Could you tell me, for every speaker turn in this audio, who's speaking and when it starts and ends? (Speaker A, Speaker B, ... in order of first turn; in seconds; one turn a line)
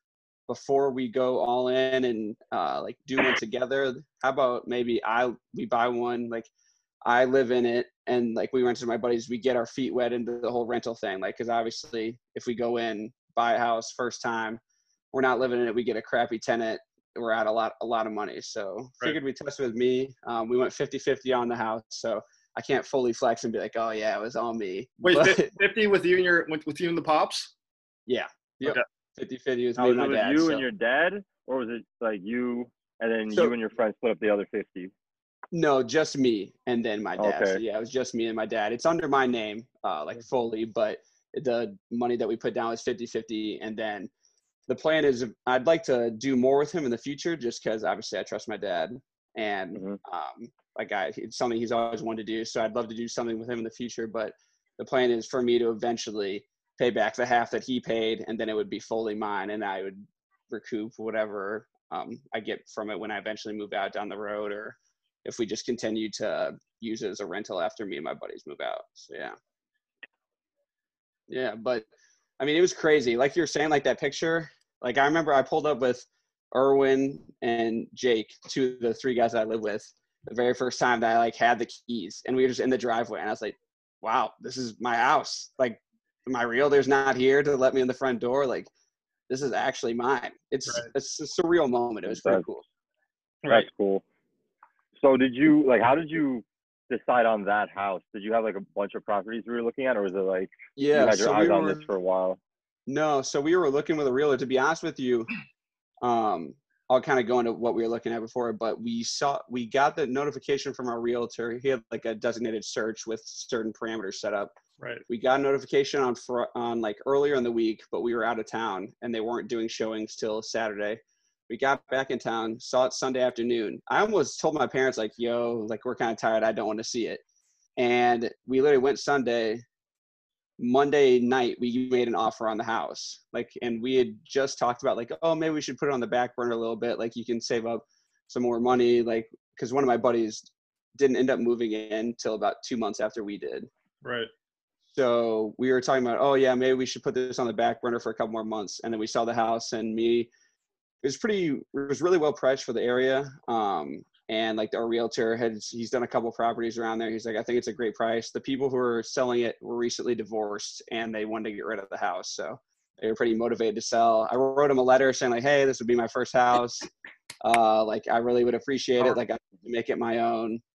Speaker A: 0.5-6.5
Speaker A: 7.0-14.6
Speaker A: 15.1-25.5
Speaker B: 25.0-27.5
Speaker A: 28.1-30.6
Speaker C: 29.8-34.9
Speaker A: 35.5-44.1
Speaker C: 37.2-37.6
Speaker A: 44.7-69.3
Speaker A: 71.3-71.9
Speaker A: 72.4-88.7
Speaker A: 89.3-92.7
Speaker C: 92.1-92.4
Speaker B: 93.4-93.7
Speaker C: 93.5-94.0
Speaker C: 95.0-102.4
Speaker A: 100.8-101.9
Speaker A: 102.9-105.3
Speaker A: 106.0-114.5
Speaker B: 114.8-115.0
Speaker A: 115.1-127.2
Speaker A: 127.8-129.6
Speaker A: 130.6-143.7
Speaker B: 144.0-144.3
Speaker A: 144.9-150.3
Speaker A: 151.0-166.9
Speaker A: 167.4-170.6